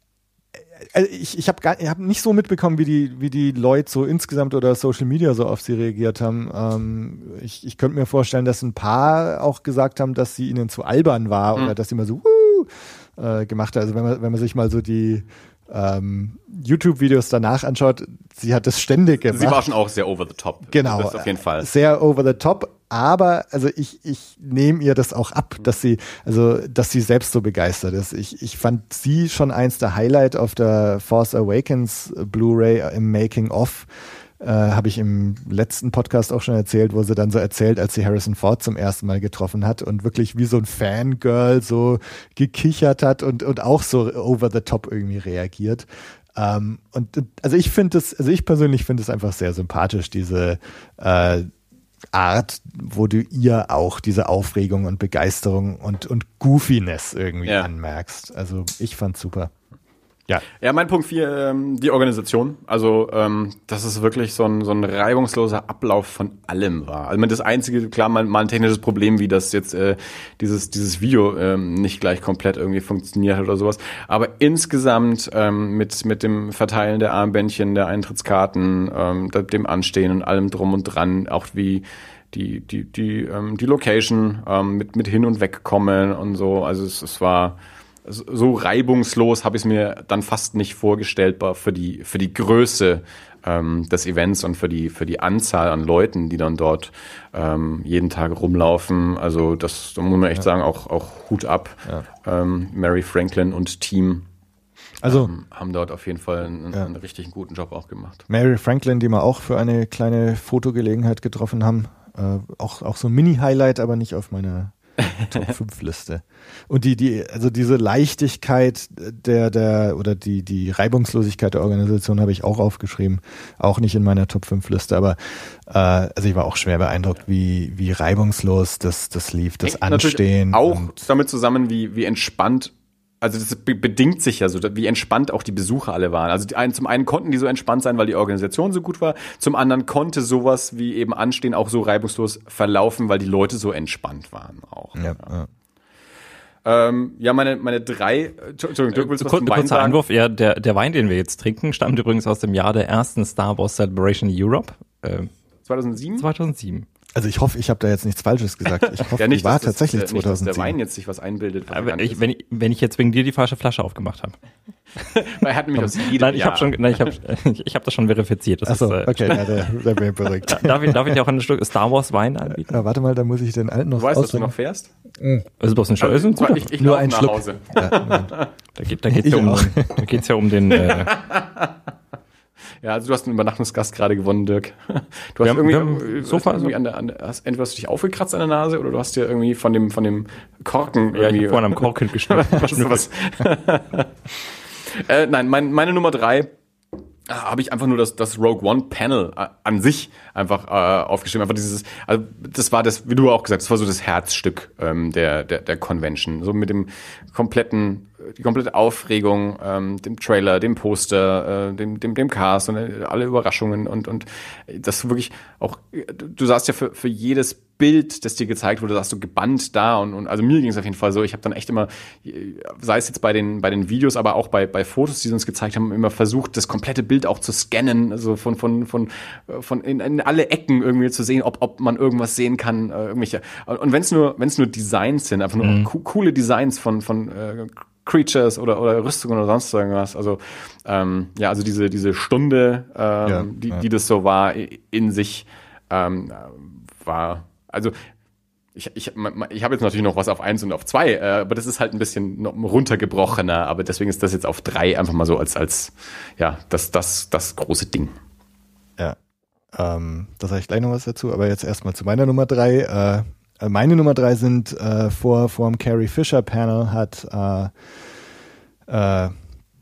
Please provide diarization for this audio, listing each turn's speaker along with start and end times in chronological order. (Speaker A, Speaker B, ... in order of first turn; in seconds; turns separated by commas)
Speaker A: 0.8-19.6, Speaker B: 19.3-21.7, Speaker A: 20.7-33.9, Speaker A: 34.4-51.5, Speaker A: 52.1-59.5, Speaker B: 60.6-104.3, Speaker A: 105.0-105.3, Speaker B: 105.0-108.3, Speaker A: 108.3-130.9, Speaker B: 115.0-115.5, Speaker B: 129.6-145.3, Speaker A: 144.9-145.5, Speaker B: 146.7-150.0, Speaker C: 148.9-155.3, Speaker B: 155.7-156.3, Speaker C: 156.2-156.9, Speaker A: 157.2-160.8, Speaker B: 159.2-162.2, Speaker C: 161.7-164.4, Speaker B: 165.0-167.2, Speaker C: 166.0-169.8, Speaker A: 168.7-171.2, Speaker C: 170.4-172.8, Speaker A: 172.5-174.5, Speaker B: 174.0-174.9, Speaker C: 175.6-176.8, Speaker B: 176.0-178.5, Speaker A: 176.8-178.3, Speaker C: 178.8-181.1, Speaker A: 179.2-180.2, Speaker B: 180.7-181.8, Speaker B: 182.8-194.2, Speaker C: 185.4-186.8, Speaker C: 191.1-193.1, Speaker B: 194.9-196.5, Speaker B: 197.3-248.0, Speaker C: 235.6-235.9, Speaker A: 243.2-243.8, Speaker B: 248.8-258.2, Speaker A: 259.7-267.7, Speaker A: 268.9-269.3